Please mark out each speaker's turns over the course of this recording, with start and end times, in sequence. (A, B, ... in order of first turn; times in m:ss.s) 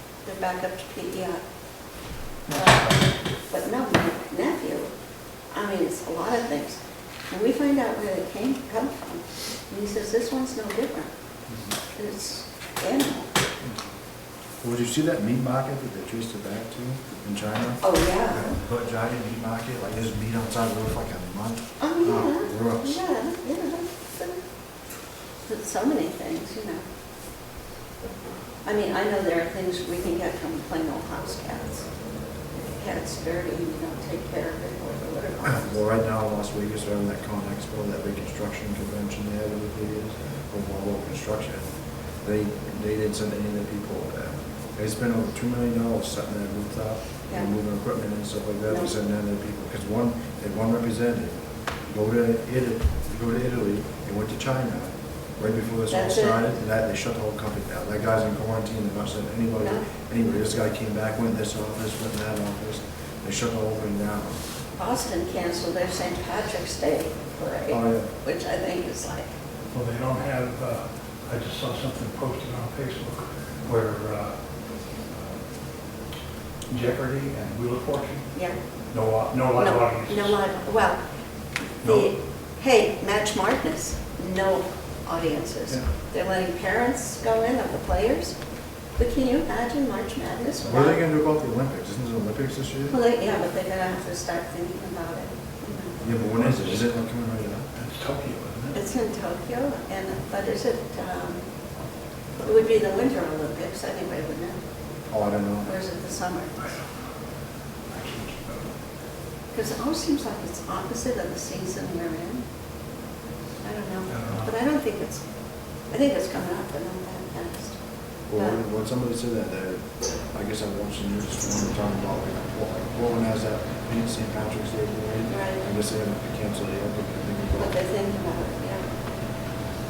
0:00.2-0:01.4 A
0:02.4-0:03.0 B
0:02.5-0:04.9 A
0:05.5-0:11.1 A
0:11.9-0:13.4 A
0:14.6-0:23.0 C
0:17.8-0:18.6 A
0:21.8-0:24.4 A
0:25.4-0:26.8 A
0:28.6-0:31.9 A
0:32.5-0:35.8 A
0:35.4-0:41.6 C
0:42.2-1:04.4 C
0:55.9-0:56.4 A
0:59.6-0:59.8 A
1:04.8-1:09.3 A
1:07.7-1:08.1 C
1:09.7-1:15.4 B
1:16.7-1:18.4 B
1:18.9-1:20.4 B
1:19.5-1:21.0 A
1:21.8-1:28.3 A
1:21.8-1:22.1 B
1:29.0-1:31.0 A
1:30.6-1:33.0 C
1:32.9-1:36.0 A
1:36.0-1:37.7 C
1:36.3-1:36.7 B
1:37.7-1:38.8 B
1:38.7-1:41.4 A
1:42.4-1:44.6 A
1:45.1-1:45.7 C
1:45.6-1:46.6 A
1:46.6-1:47.0 B
1:47.9-1:48.7 B
1:49.5-1:52.4 A
1:53.6-1:55.2 A
1:54.1-1:54.5 B
1:55.9-1:57.8 A
1:58.3-2:07.8 C
2:05.3-2:05.6 A
2:07.6-2:08.9 A